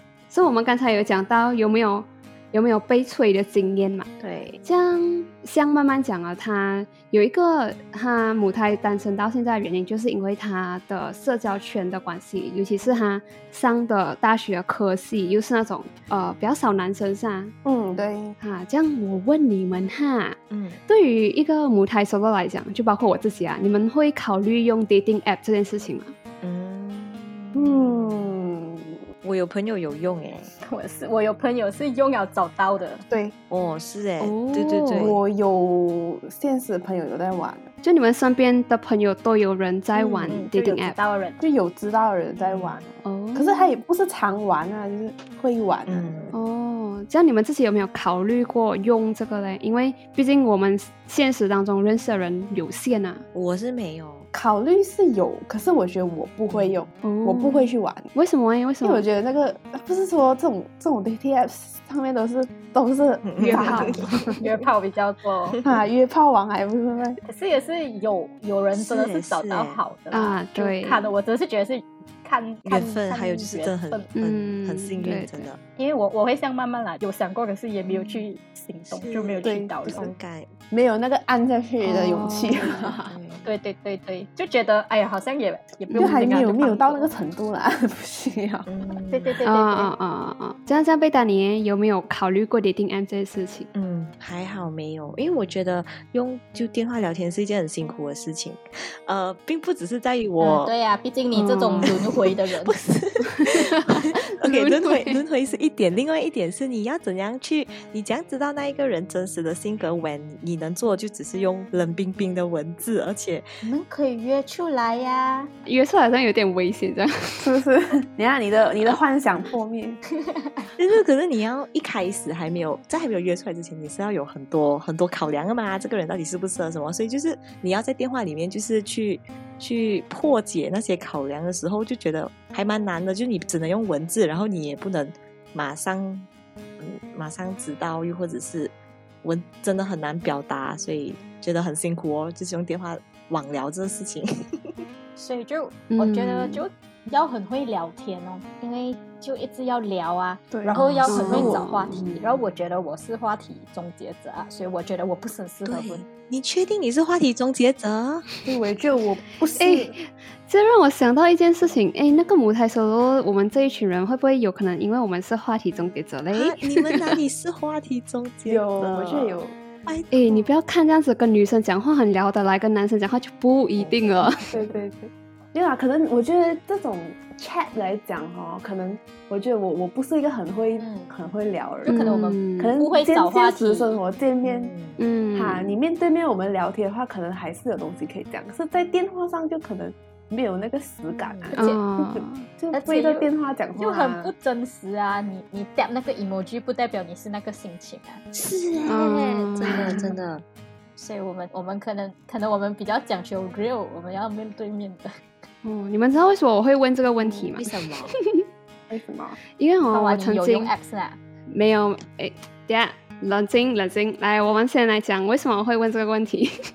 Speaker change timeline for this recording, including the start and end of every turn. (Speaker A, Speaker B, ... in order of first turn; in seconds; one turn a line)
Speaker A: 0.3-4.1
Speaker B: 4.2-4.6
Speaker A: 4.6-17.5
Speaker C: 17.6-18.4
Speaker A: 18.4-20.4
Speaker B: 20.5-20.8
Speaker A: 20.9-26.1
Speaker B: 26.4-28.3
Speaker C: 27.5-29.0
Speaker B: 29.2-30.5
Speaker D: 30.6-33.0
Speaker C: 33.1-33.3
Speaker B: 33.5-35.2
Speaker A: 34.2-35.1
Speaker C: 35.0-37.7
Speaker A: 37.8-41.0
Speaker C: 40.0-40.3
Speaker D: 40.3-41.4
Speaker C: 41.4-46.3
Speaker B: 42.4-42.8
Speaker A: 43.0-43.8
Speaker B: 45.9-46.4
Speaker A: 46.3-53.2
Speaker B: 53.3-54.3
Speaker C: 54.3-58.1
Speaker B: 56.5-56.8
Speaker A: 57.0-59.0
Speaker C: 58.8-64.4
Speaker B: 63.2-64.4
Speaker A: 63.4-64.2
Speaker D: 64.4-65.6
Speaker B: 65.5-65.9
Speaker C: 65.6-67.2
Speaker D: 67.2-74.1
Speaker B: 68.8-69.8
Speaker A: 70.1-71.1
Speaker B: 72.7-75.6
Speaker A: 74.2-75.5
Speaker D: 75.8-80.1
Speaker B: 78.9-80.5
Speaker C: 79.4-80.0
Speaker C: 80.7-83.2
Speaker A: 81.8-83.0
Speaker B: 83.0-83.5
Speaker D: 83.4-87.1
Speaker A: 85.9-86.4
Speaker C: 86.0-88.7
Speaker B: 88.7-89.4
Speaker D: 89.1-89.9
Speaker A: 89.5-93.7
Speaker B: 93.7-100.7
Speaker D: 100.4-102.8
Speaker A: 101.3-102.0
Speaker B: 101.8-113.5
Speaker A: 103.4-105.2
Speaker D: 113.6-115.5
Speaker A: 115.7-117.5
Speaker C: 117.4-120.0
Speaker D: 120.2-120.7
Speaker B: 120.8-136.3
Speaker B: 136.8-144.3
Speaker D: 145.2-156.0
Speaker A: 145.9-146.7
Speaker C: 150.5-151.5
Speaker B: 150.7-152.4
Speaker A: 151.1-152.0
Speaker B: 155.7-158.2
Speaker C: 158.4-159.9
Speaker A: 159.6-167.2
Speaker B: 166.3-170.5
Speaker C: 168.4-169.6
Speaker A: 170.1-174.4
Speaker B: 173.8-174.7
Speaker C: 174.5-184.7
Speaker D: 180.8-181.1
Speaker D: 181.8-184.0
Speaker A: 181.9-182.8
Speaker B: 184.4-185.0
Speaker A: 185.0-185.8
Speaker C: 185.3-194.3
Speaker B: 191.1-191.5
Speaker D: 191.5-191.8
Speaker A: 191.5-192.5
Speaker D: 192.7-198.2
Speaker B: 198.3-200.4
Speaker A: 198.8-200.1
Speaker D: 199.7-200.0
Speaker D: 201.0-205.3
Speaker A: 205.6-208.4
Speaker C: 207.2-207.6
Speaker B: 207.6-208.1
Speaker C: 208.9-209.4
Speaker A: 209.6-210.7
Speaker D: 209.9-211.2
Speaker A: 211.5-216.5